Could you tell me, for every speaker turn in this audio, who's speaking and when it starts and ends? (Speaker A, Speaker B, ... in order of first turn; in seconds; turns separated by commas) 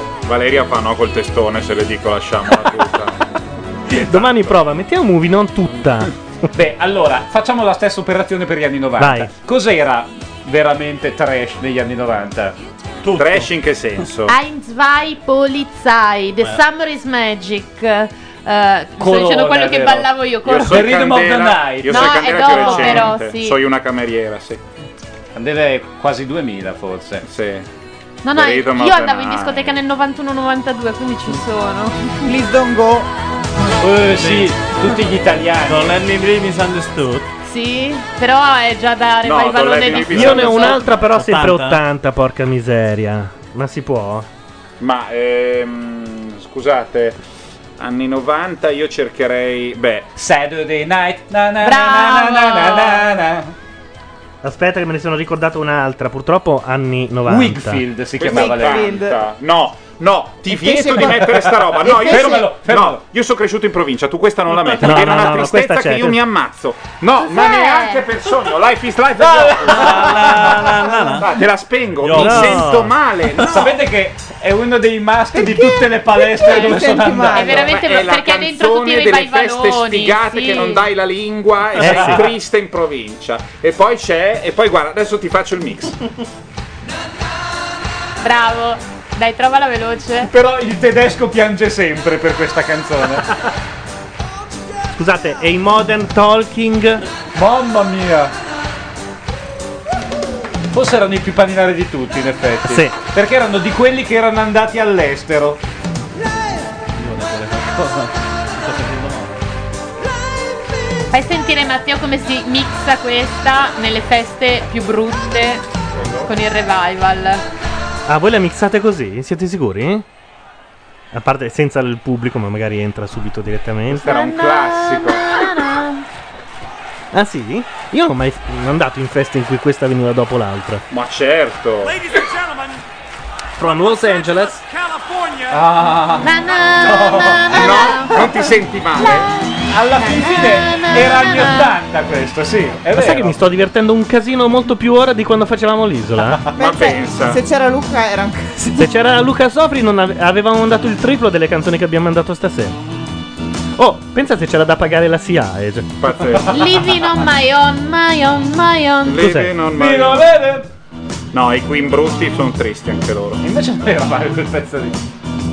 Speaker A: 0.2-3.3, Speaker B: 4.0-6.1, Speaker A: 4.0-4.6, Speaker C: 6.5-12.6, Speaker B: 9.0-9.3, Speaker D: 13.0-13.5, Speaker A: 13.2-14.4, Speaker E: 14.3-21.0, Speaker C: 19.0-22.9, Speaker A: 20.4-24.6, Speaker E: 21.9-23.6, Speaker C: 25.4-27.3, Speaker A: 27.3-27.7, Speaker E: 28.2-32.2, Speaker A: 28.3-29.8, Speaker F: 32.2-33.1, Speaker C: 33.8-36.0, Speaker D: 34.1-35.0, Speaker D: 35.6-37.3, Speaker E: 37.5-40.8, Speaker A: 39.2-40.9, Speaker B: 40.1-44.3, Speaker D: 40.9-41.8, Speaker A: 44.8-47.2, Speaker A: 47.8-50.1, Speaker C: 50.2-53.5, Speaker E: 51.6-53.1, Speaker B: 54.4-57.9, Speaker C: 57.3-58.9, Speaker A: 58.2-73.8, Speaker F: 58.2-59.2, Speaker F: 60.5-62.5, Speaker C: 60.9-63.0, Speaker B: 64.8-66.2, Speaker E: 67.2-68.1, Speaker C: 69.2-70.5, Speaker D: 69.7-71.3, Speaker D: 72.0-72.9, Speaker B: 72.2-72.9, Speaker C: 73.4-77.6, Speaker F: 75.3-77.7, Speaker E: 77.3-80.8, Speaker A: 77.5-86.0, Speaker B: 81.8-82.3, Speaker E: 88.2-90.3, Speaker C: 90.3-93.3, Speaker B: 95.0-97.0, Speaker C: 97.3-98.3, Speaker C: 100.7-105.6, Speaker B: 102.7-103.0, Speaker D: 107.0-109.4, Speaker E: 111.1-115.6, Speaker E: 116.2-117.4, Speaker B: 118.1-120.0, Speaker B: 121.1-124.1, Speaker A: 123.9-125.4, Speaker E: 124.0-126.0, Speaker B: 127.1-130.8, Speaker A: 130.9-132.0, Speaker B: 133.6-134.6, Speaker C: 135.5-137.6, Speaker E: 136.2-138.3, Speaker A: 137.5-139.3, Speaker C: 139.7-143.4, Speaker E: 141.0-141.6, Speaker B: 142.9-146.4, Speaker A: 146.6-147.4, Speaker F: 146.6-148.9, Speaker B: 148.8-152.8, Speaker B: 153.8-155.9, Speaker A: 156.0-156.6, Speaker E: 156.5-159.3, Speaker A: 159.0-160.3, Speaker B: 159.2-159.5, Speaker C: 159.7-160.7, Speaker A: 161.3-163.4, Speaker C: 163.4-165.0